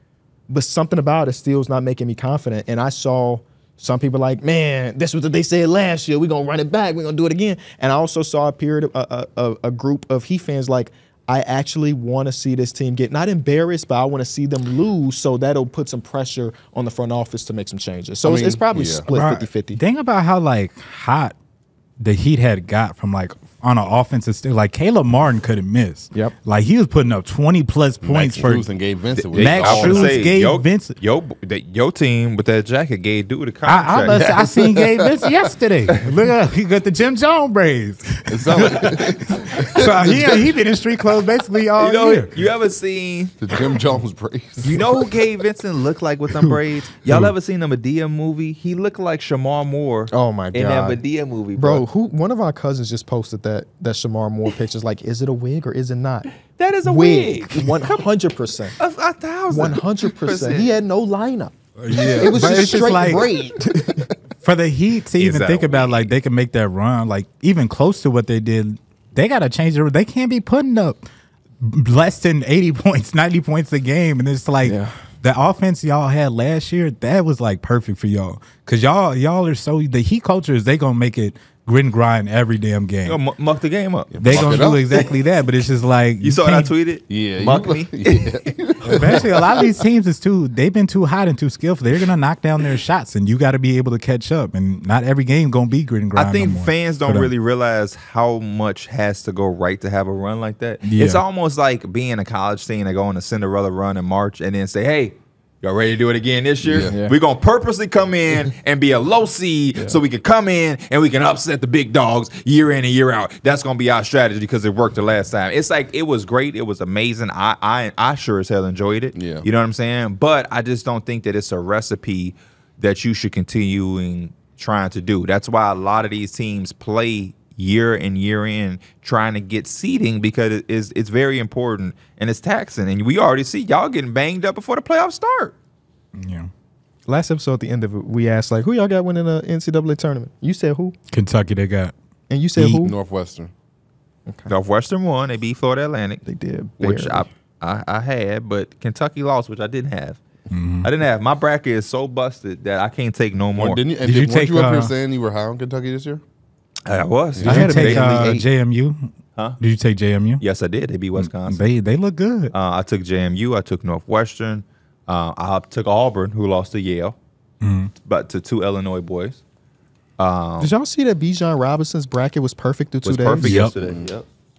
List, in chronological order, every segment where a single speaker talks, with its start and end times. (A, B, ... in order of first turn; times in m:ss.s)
0:00.5-0:19.8 A
0:18.2-0:19.1 B
0:19.1-0:21.4 C
0:22.0-0:28.7 C
0:28.0-0:30.3 B
0:29.2-0:34.5 D
0:29.3-0:30.9 C
0:33.7-0:42.3 C
0:34.0-0:35.5 B
0:38.3-0:40.6 B
0:41.8-0:43.3 D
0:43.4-0:45.1 B
0:44.6-0:51.8 D
0:50.1-0:51.0 A
0:51.6-0:56.3 A
0:56.5-0:58.0 D
0:56.8-0:58.8 A
0:58.8-1:00.7 D
0:59.5-1:04.1 A
1:01.8-1:03.3 C
1:04.4-1:11.0 C
1:05.2-1:06.0 D
1:11.6-1:23.2 C
1:14.6-1:15.0 A
1:23.1-1:25.0 D
1:24.1-1:25.1 B
1:24.2-1:26.7 C
1:26.2-1:28.4 D
1:27.1-1:29.8 B
1:28.8-1:37.3 C
1:36.2-2:15.5 D
1:40.8-1:41.2 C
1:46.6-1:47.0 B
1:46.8-1:47.2 A
1:59.1-1:59.5 B
2:16.2-2:16.5 C
2:17.1-2:21.0 A
2:21.1-2:21.9 C
2:22.3-2:23.0 A
2:22.8-2:23.5 B
2:24.3-2:24.5 A
2:24.5-2:26.2 D
2:26.2-2:27.3 A
2:26.8-2:30.2 D
2:30.5-2:30.9 C
2:30.8-2:33.8 D
2:33.6-2:36.2 B
2:34.0-2:34.9 C
2:36.9-2:38.4 D
2:37.3-2:37.7 B
2:37.4-2:38.5 A
2:37.4-2:40.4 C
2:40.4-2:41.6 D
2:41.2-2:42.5 C
2:42.5-2:47.2 D
2:47.6-2:47.9 C
2:48.0-2:49.4 D
2:50.2-2:50.7 D
2:50.6-2:53.5 A
2:53.0-2:54.3 D
2:53.4-2:53.7 C
2:53.8-2:54.1 B